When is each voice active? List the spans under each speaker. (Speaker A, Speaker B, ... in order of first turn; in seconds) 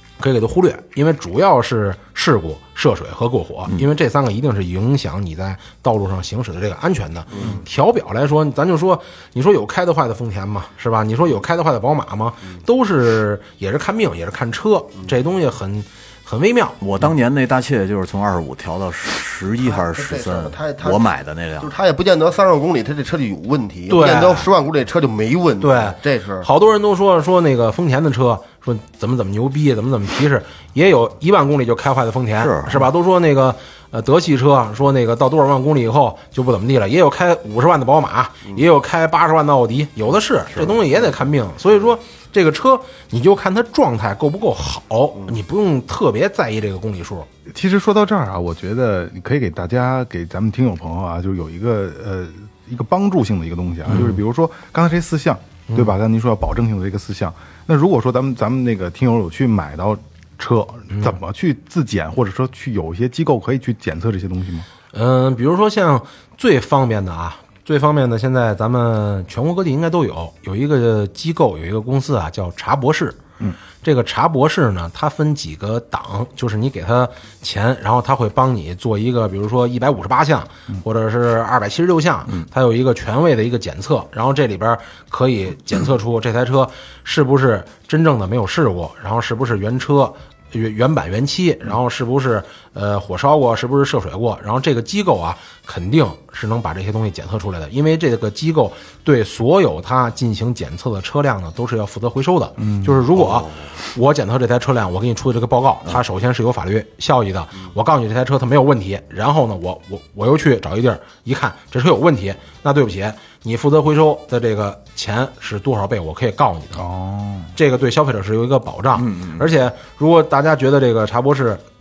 Speaker A: 0.2-16.8, 23.9-24.5, 25.6-47.3, 64.9-73.2, 73.8-116.8, 117.5-121.6
Speaker B: 7.3-7.6, 19.6-26.5
Speaker C: 16.8-21.7, 32.4-32.9, 103.1-103.7, 119.0-119.5
Speaker D: 47.5-64.7, 102.6-103.0, 116.8-117.5